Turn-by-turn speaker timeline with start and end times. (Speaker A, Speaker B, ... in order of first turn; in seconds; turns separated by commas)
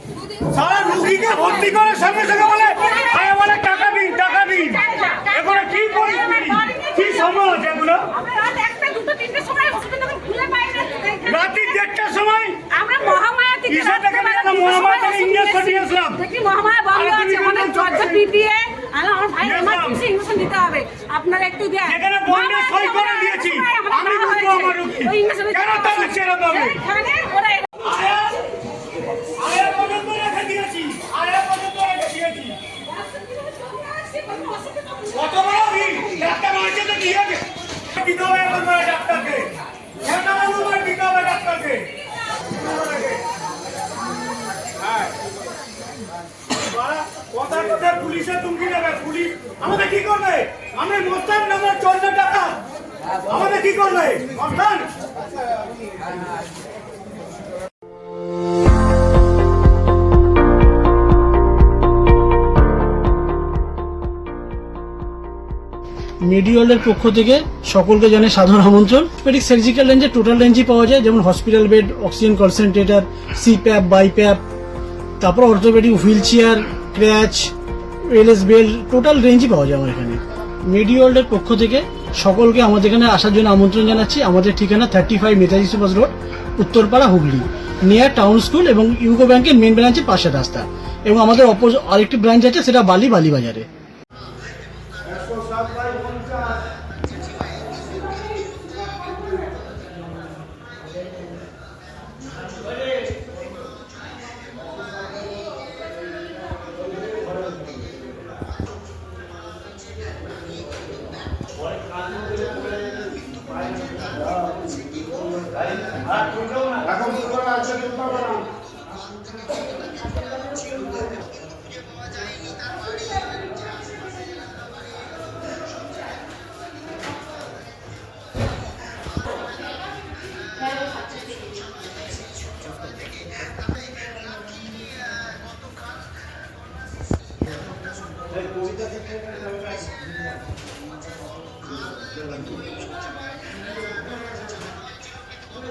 Speaker A: 0.5-8.1, Speaker B: 4.8-5.9, Speaker B: 6.5-7.0, Speaker B: 8.2-11.2, Speaker A: 11.2-12.6, Speaker B: 12.8-15.5, Speaker A: 13.7-16.2, Speaker B: 16.2-21.9, Speaker A: 16.9-18.3, Speaker A: 19.4-20.0, Speaker A: 21.8-26.8, Speaker B: 22.5-24.3, Speaker B: 25.1-25.5, Speaker B: 26.8-27.7, Speaker A: 27.8-28.5, Speaker A: 29.4-32.6, Speaker B: 34.0-34.9, Speaker A: 35.1-41.9, Speaker A: 42.6-43.2, Speaker A: 46.6-52.6, Speaker A: 53.3-54.9, Speaker C: 66.2-74.4, Speaker C: 75.2-77.5, Speaker C: 78.1-93.7, Speaker C: 95.3-96.4, Speaker A: 116.2-117.6, Speaker C: 117.6-118.2